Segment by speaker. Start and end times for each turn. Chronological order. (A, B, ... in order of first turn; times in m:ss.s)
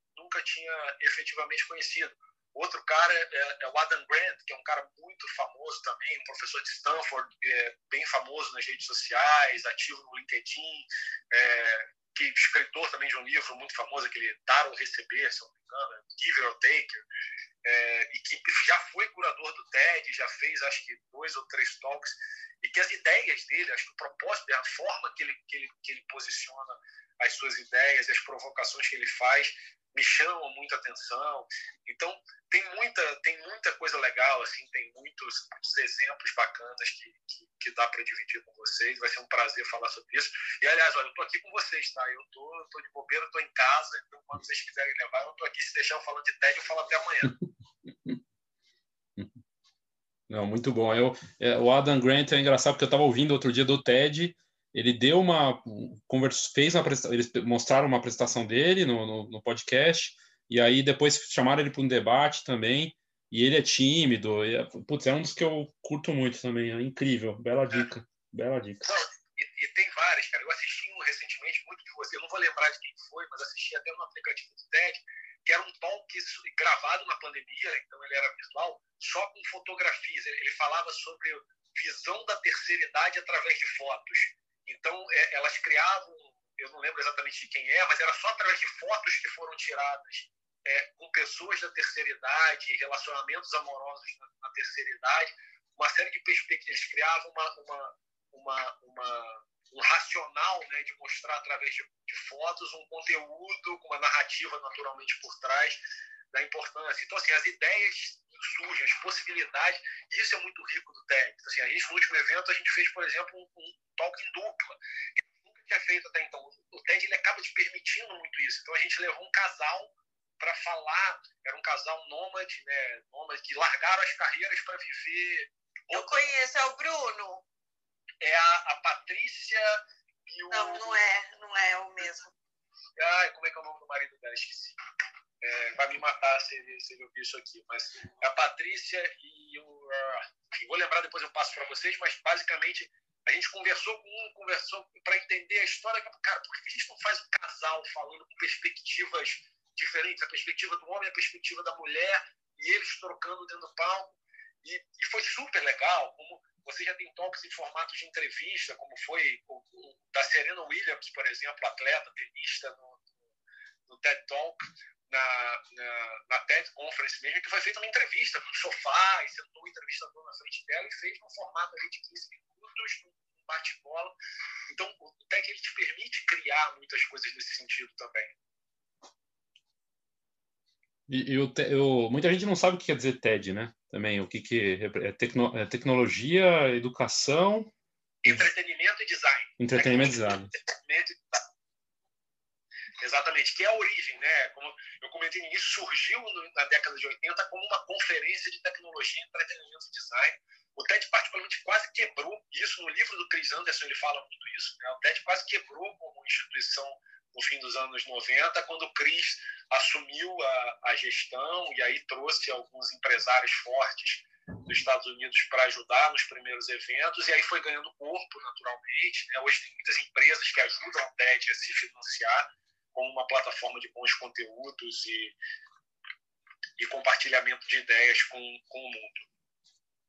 0:00.1-0:17.0 A
0:17.6-0:47.4 A
0:50.3-1:08.9 B
1:08.8-1:45.8 A
1:46.3-2:06.3 A
2:05.9-2:07.4 C
2:08.2-2:10.9 A
2:10.5-2:12.3 C
2:13.0-2:14.8 A
2:15.4-2:43.1 A
2:43.9-2:54.1 A
2:54.7-2:58.4 A
3:01.1-3:07.7 B
3:08.2-3:11.4 A
3:09.6-3:10.5 B
3:13.0-3:45.4 A
3:46.8-3:49.3 A